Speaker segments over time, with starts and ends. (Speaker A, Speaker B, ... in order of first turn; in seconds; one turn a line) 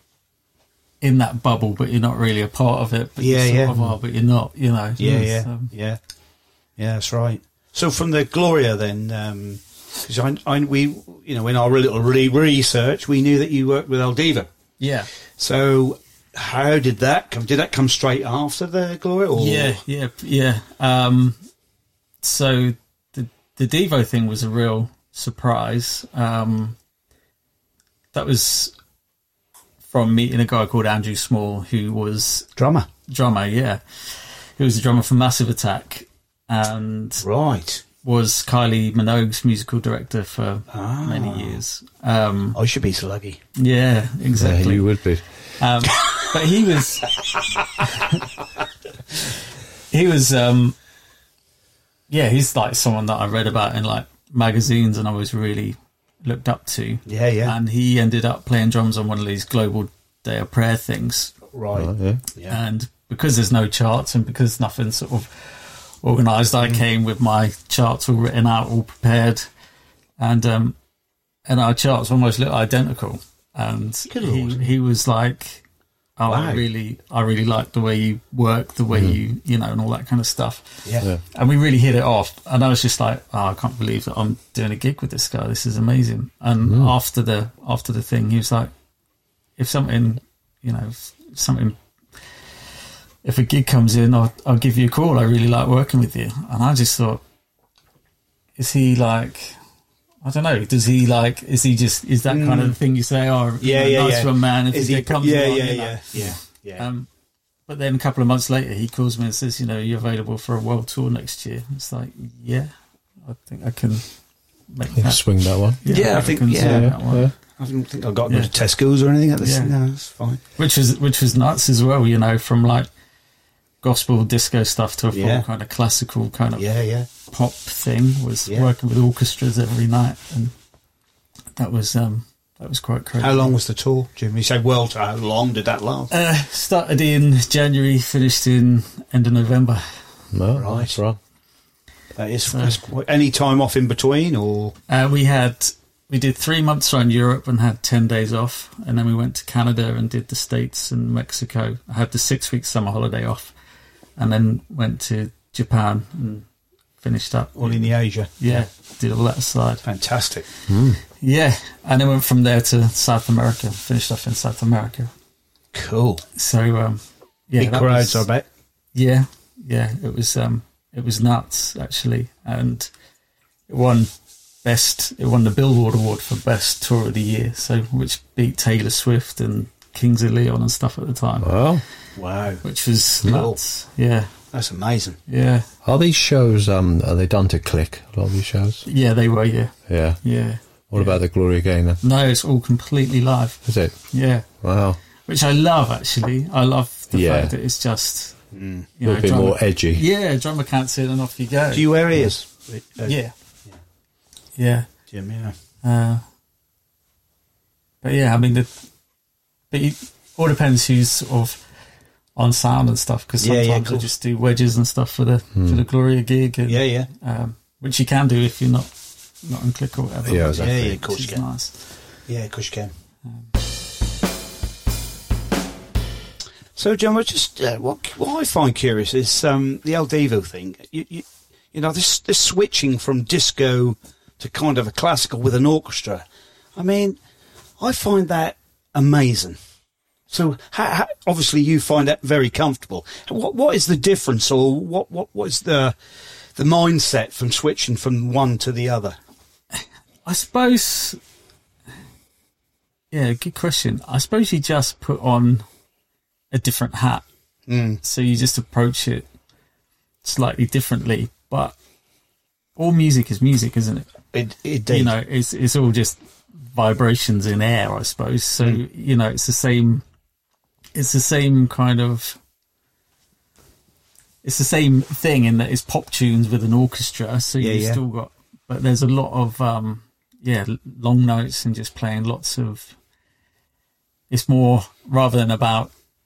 Speaker A: 1.0-5.7
Speaker B: 3.2-3.8
Speaker B: 5.0-6.0
Speaker B: 6.8-14.5
Speaker A: 14.8-15.1
Speaker B: 15.4-19.8
Speaker A: 19.4-21.4
Speaker A: 22.2-26.8
Speaker A: 28.1-28.7
Speaker A: 29.9-32.5
Speaker B: 32.6-32.9
Speaker A: 33.1-37.2
Speaker B: 37.2-37.8
Speaker A: 38.0-42.6
Speaker B: 40.7-41.6
Speaker B: 42.5-43.4
Speaker A: 43.6-44.9
Speaker C: 44.3-45.3
Speaker A: 45.6-47.2
Speaker A: 48.0-48.2
Speaker A: 49.9-50.8
Speaker A: 52.1-61.4
Speaker B: 57.1-57.5
Speaker B: 61.5-62.6
Speaker C: 61.7-62.2
Speaker A: 62.5-69.5
Speaker A: 70.2-70.8
Speaker A: 71.5-75.7
Speaker B: 74.1-74.7
Speaker A: 76.2-88.7
Speaker B: 76.3-76.6
Speaker C: 86.7-86.9
Speaker A: 89.6-91.8
Speaker A: 93.2-97.2
Speaker A: 98.6-99.6
Speaker A: 100.2-107.1
Speaker B: 102.3-102.8
Speaker B: 103.6-106.8
Speaker A: 107.7-112.7
Speaker A: 113.2-114.0
Speaker A: 114.7-117.3
Speaker C: 115.0-115.8
Speaker B: 115.9-120.4
Speaker C: 116.5-117.3
Speaker A: 119.4-119.8
Speaker A: 120.6-122.9
Speaker A: 123.8-126.7
Speaker B: 125.1-125.5
Speaker B: 126.6-127.1
Speaker A: 127.2-130.5
Speaker A: 131.6-133.6
Speaker B: 133.2-136.1
Speaker A: 136.1-139.8
Speaker C: 140.3-141.2
Speaker B: 140.6-141.0
Speaker B: 142.2-144.8
Speaker A: 142.5-142.8
Speaker A: 144.9-153.5
Speaker A: 154.2-156.5
Speaker A: 157.0-159.8
Speaker B: 157.6-158.6
Speaker B: 159.8-160.5
Speaker C: 160.7-161.0
Speaker A: 161.1-165.1
Speaker B: 165.7-166.3
Speaker A: 166.4-168.3
Speaker B: 167.6-168.4
Speaker A: 168.9-172.9
Speaker A: 173.7-174.1
Speaker A: 174.6-181.6
Speaker C: 181.4-181.8
Speaker B: 182.2-182.6
Speaker A: 182.6-184.3
Speaker B: 183.2-183.6
Speaker B: 184.5-185.2
Speaker A: 185.3-185.7
Speaker C: 185.8-188.8
Speaker A: 188.9-191.2
Speaker C: 189.9-190.2
Speaker C: 190.9-192.0
Speaker A: 192.0-194.5
Speaker C: 193.7-194.0
Speaker C: 194.6-195.0
Speaker A: 195.2-198.4
Speaker C: 197.1-197.5
Speaker B: 198.5-198.9
Speaker A: 199.0-201.9
Speaker C: 199.0-200.0
Speaker B: 201.7-203.2
Speaker A: 203.1-203.3
Speaker A: 204.6-204.9
Speaker B: 205.1-205.6
Speaker A: 205.8-206.2
Speaker A: 208.0-208.7
Speaker A: 209.7-211.6
Speaker A: 212.4-221.7
Speaker B: 213.4-214.1
Speaker B: 216.7-217.1
Speaker C: 220.3-221.0
Speaker B: 220.5-221.4
Speaker B: 222.3-222.9
Speaker B: 226.8-236.2
Speaker B: 236.8-237.2
Speaker B: 237.8-239.6
Speaker B: 240.3-245.9
Speaker B: 246.6-249.2
Speaker A: 249.7-251.2
Speaker A: 253.1-255.7
Speaker A: 256.5-257.2
Speaker B: 257.7-258.0
Speaker A: 258.0-259.3
Speaker A: 260.2-261.8
Speaker A: 262.8-264.1
Speaker B: 264.3-265.1
Speaker A: 264.9-270.1
Speaker A: 270.9-272.4
Speaker A: 274.4-283.0
Speaker B: 277.6-278.0
Speaker A: 284.3-285.9